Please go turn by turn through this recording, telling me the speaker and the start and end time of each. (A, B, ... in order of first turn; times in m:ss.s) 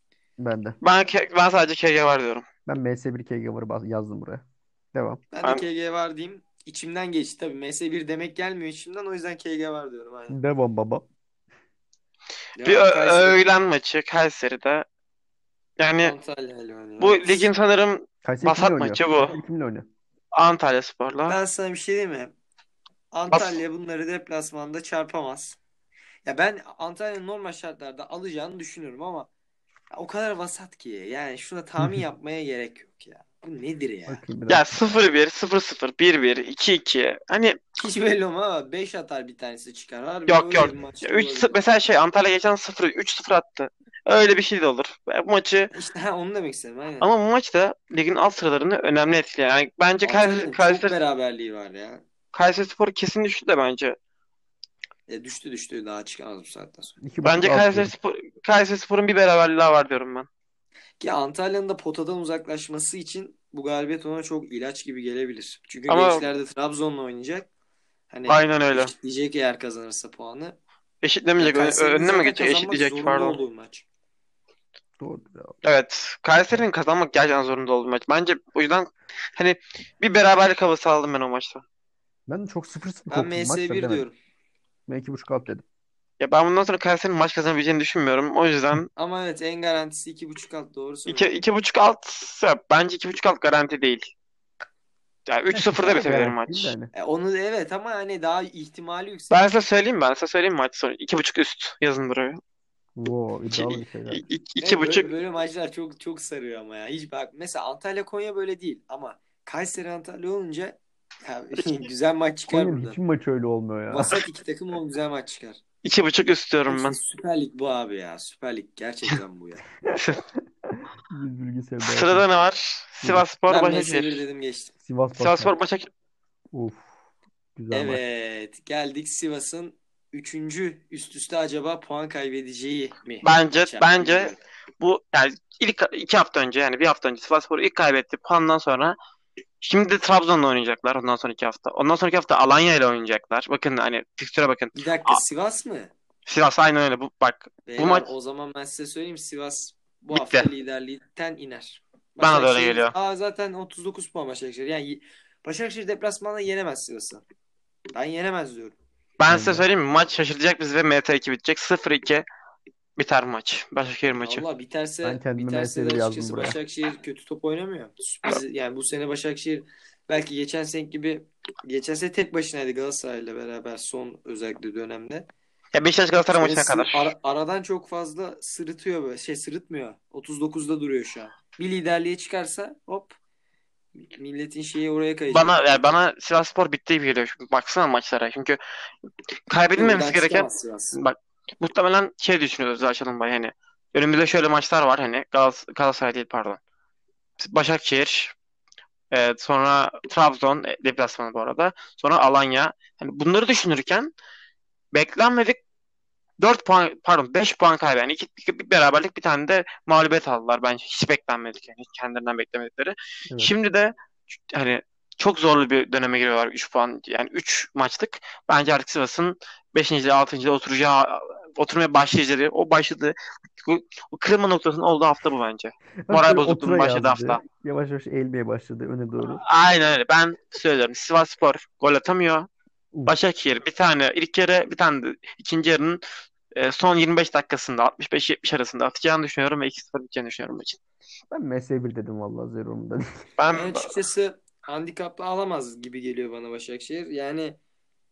0:00.4-0:00.8 A
0:00.8-0:02.4 B
0:02.7-0:05.2 A
0:05.3-0:10.4 C
0:10.3-0:11.1 A
0:12.6-0:13.4 C
0:12.6-0:14.9 B
0:15.8-0:16.2 B
0:16.0-0:17.5 C
0:17.0-0:19.4 B
0:18.2-0:19.9 A
0:20.3-0:21.4 B
0:21.3-0:22.3 C
0:23.1-0:25.6 C
0:23.3-0:23.6 B
0:26.2-0:29.3 C
0:29.9-0:34.2 C
0:31.8-0:32.0 A
0:34.1-0:34.7 A
0:34.5-0:37.6 B
0:37.8-0:41.6 C
0:40.3-0:45.7 B
0:45.7-0:47.1 C
0:47.0-0:51.0 B
0:50.0-0:52.0 C
0:52.3-0:54.0 B
0:55.1-0:57.0 C
0:57.0-0:57.9 A
0:57.2-1:00.3 B
1:01.0-1:07.5 C
1:05.9-1:06.2 B
1:08.1-1:10.6 C
1:08.3-1:08.9 B
1:11.0-1:13.4 B
1:11.4-1:13.8 C
1:15.0-1:15.6 A
1:15.6-1:21.6 B
1:22.3-1:24.1 A
1:23.1-1:24.2 C
1:24.9-1:25.6 A
1:26.2-1:28.9 B
1:29.0-1:31.3 C
1:31.1-1:34.1 B
1:35.3-1:36.7 B
1:35.5-1:36.9 A
1:36.9-1:39.4 C
1:39.3-1:42.4 B
1:43.0-1:44.2 A
1:43.5-1:45.1 B
1:44.6-1:53.0 C
1:52.5-1:54.2 A
1:53.9-1:55.6 C
1:55.8-1:57.0 B
1:56.7-1:59.6 C
1:59.9-2:00.2 B
2:00.6-2:02.3 A
2:01.8-2:04.2 B
2:03.5-2:04.7 C
2:04.8-2:05.5 A
2:05.2-2:05.9 B
2:06.5-2:06.9 A
2:07.6-2:08.0 A
2:07.7-2:14.4 C
2:13.2-2:19.0 B
2:19.6-2:25.2 B
2:24.8-2:25.9 C
2:26.3-2:28.1 B
2:27.7-2:37.2 C
2:30.1-2:30.5 B
2:32.2-2:32.9 B
2:38.0-2:38.8 C
2:39.2-2:42.3 B
2:39.3-2:39.7 A
2:43.0-2:44.4 B
2:44.2-2:55.3 C
2:45.0-2:46.6 A
2:55.7-2:57.1 B
2:56.3-3:03.2 C
3:04.1-3:05.9 C
3:05.3-3:08.6 B
3:09.5-3:16.6 B
3:09.8-3:11.0 C
3:17.4-3:18.3 B
3:19.1-3:24.1 B
3:24.9-3:25.6 B
3:26.4-3:33.9 B
3:34.5-3:47.4 B
3:46.1-3:49.4 A
3:49.3-3:52.5 B
3:53.1-3:56.0 B
3:56.5-4:00.8 B
4:01.3-4:03.3 A
4:03.4-4:03.9 B
4:03.5-4:07.6 C